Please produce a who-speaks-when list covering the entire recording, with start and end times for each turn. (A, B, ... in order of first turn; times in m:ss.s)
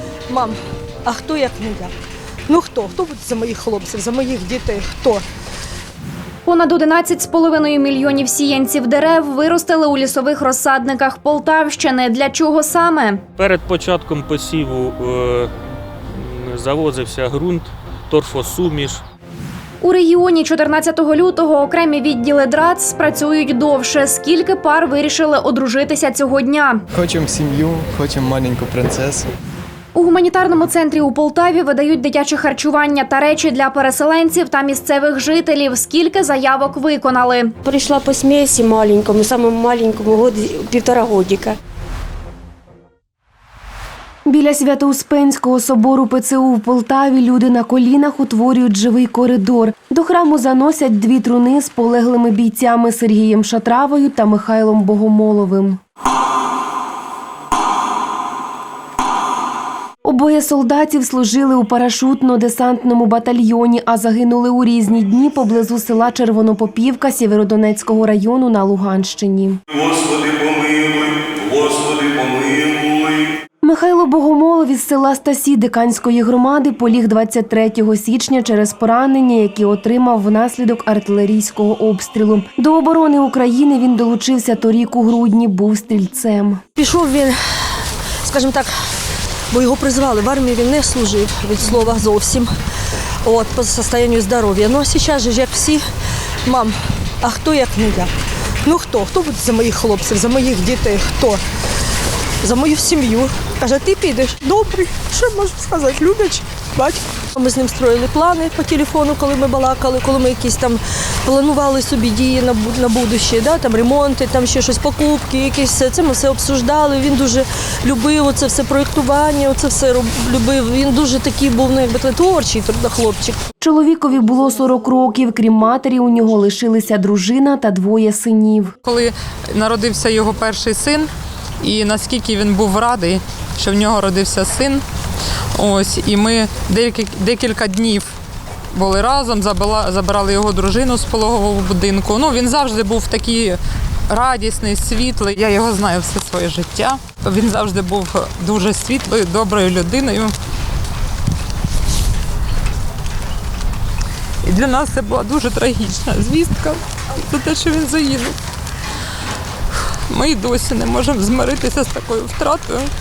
0:01.1-0:01.9 A
0:02.5-0:05.2 A
0:06.5-0:13.2 B
0:13.4-0:15.5 C
0:16.1-0:19.0 C
0:19.8-0:26.8 B
0:26.9-0:29.3 D
0:30.0-0:37.5 B
0:37.6-0:41.6 E
0:44.3-0:55.8 F
1:00.0-1:09.6 F
1:09.8-1:12.9 G
1:13.6-1:26.6 F
1:26.8-1:27.4 A
1:28.2-1:28.7 A
1:29.5-1:32.5 A
1:33.2-1:35.9 A
1:36.4-1:38.1 A
1:38.6-1:41.4 A
1:42.4-2:03.4 A
2:03.6-2:08.7 F
2:08.8-2:11.1 H
2:11.6-2:14.8 H
2:15.6-2:18.1 H
2:18.8-2:23.6 H
2:24.1-2:30.3 H
2:34.4-2:38.4 H
2:40.1-2:42.9 H